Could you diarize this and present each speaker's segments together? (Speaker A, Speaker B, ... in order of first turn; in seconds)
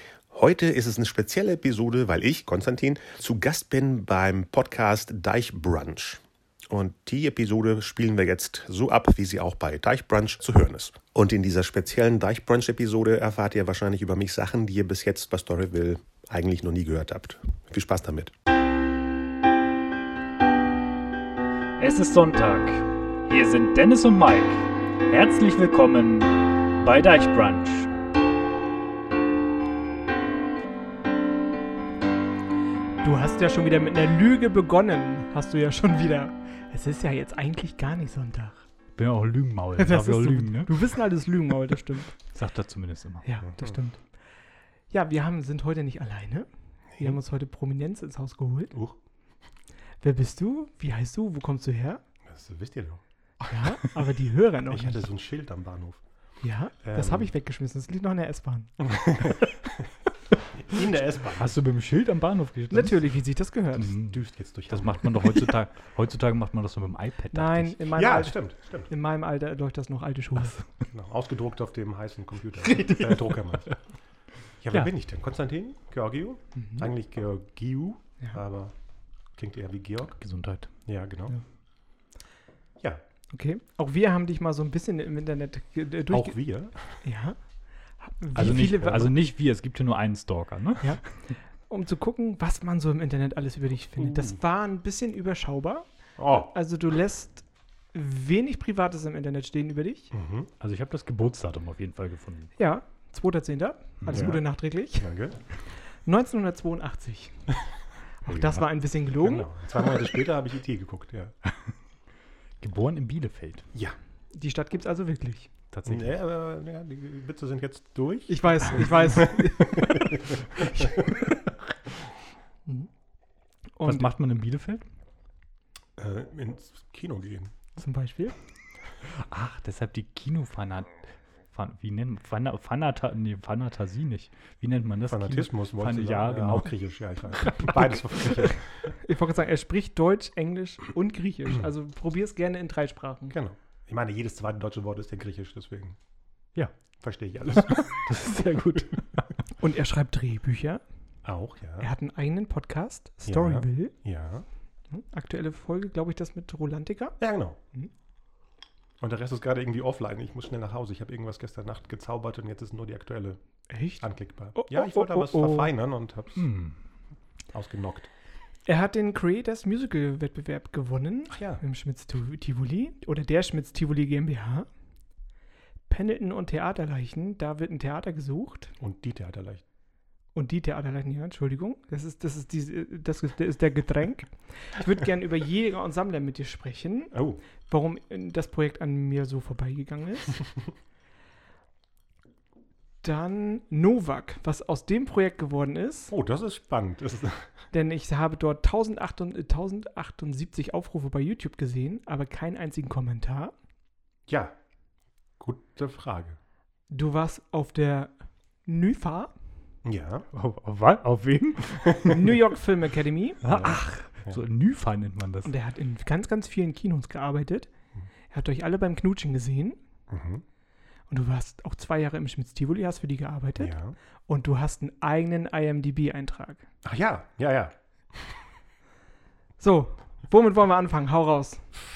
Speaker A: 0.3-18.3, 43.4-43.8, 46.9-47.2, 48.7-49.0, 52.2-53.5, 54.7-56.0, 56.8-57.3, 58.8-59.9, 60.6-61.5, 64.0-65.5, 67.9-68.9, 70.9-73.9, 74.6-81.3, 86.1-87.0, 88.8-89.1, 94.0-94.4, 96.2-96.5, 100.1-100.5, 104.1-105.4, 109.2-111.3, 115.8-121.3, 126.0-127.5, 135.1-138.9, 143.3-146.0, 147.0-148.2, 151.2-151.9, 153.2-154.4, 157.2-157.6, 159.0-166.5, 167.5-168.1, 171.3-171.6, 178.8-179.6, 187.1-187.4, 196.1-197.5, 204.3-204.5, 205.4-206.4, 209.8-210.2, 213.4-214.4, 220.1-220.4, 223.6-223.9, 226.8-228.5
Speaker B: 21.8-27.9, 39.0-41.0, 42.3-43.2, 61.4-63.2, 63.7-67.8, 80.2-80.7, 88.3-91.3, 100.6-102.6, 104.0-104.3, 108.3-108.6, 111.4-111.7, 112.6-113.7, 115.7-116.1, 123.8-124.8, 129.0-137.9, 147.5-149.3, 166.3-166.8, 210.3-212.2, 213.4-215.5
Speaker C: 33.0-38.7, 39.8-42.3, 43.2-44.2, 44.9-48.8, 50.0-52.0, 53.5-55.0, 56.4-59.3, 62.7-63.9, 67.3-70.7, 72.6-73.1, 76.5-76.9, 83.3-89.1, 90.8-100.1, 102.6-105.1, 105.8-109.5, 114.3-115.5, 118.3-121.0, 123.7-124.1, 127.8-128.3, 137.8-143.3, 149.6-150.8, 151.8-153.9, 154.9-157.2, 163.7-165.7, 168.7-174.7, 175.9-178.7, 180.3-190.4, 193.0-196.1, 197.7-203.5, 206.9-209.3, 212.0-213.4, 215.4-217.7, 218.3-219.8, 221.1-226.7, 229.6-231.7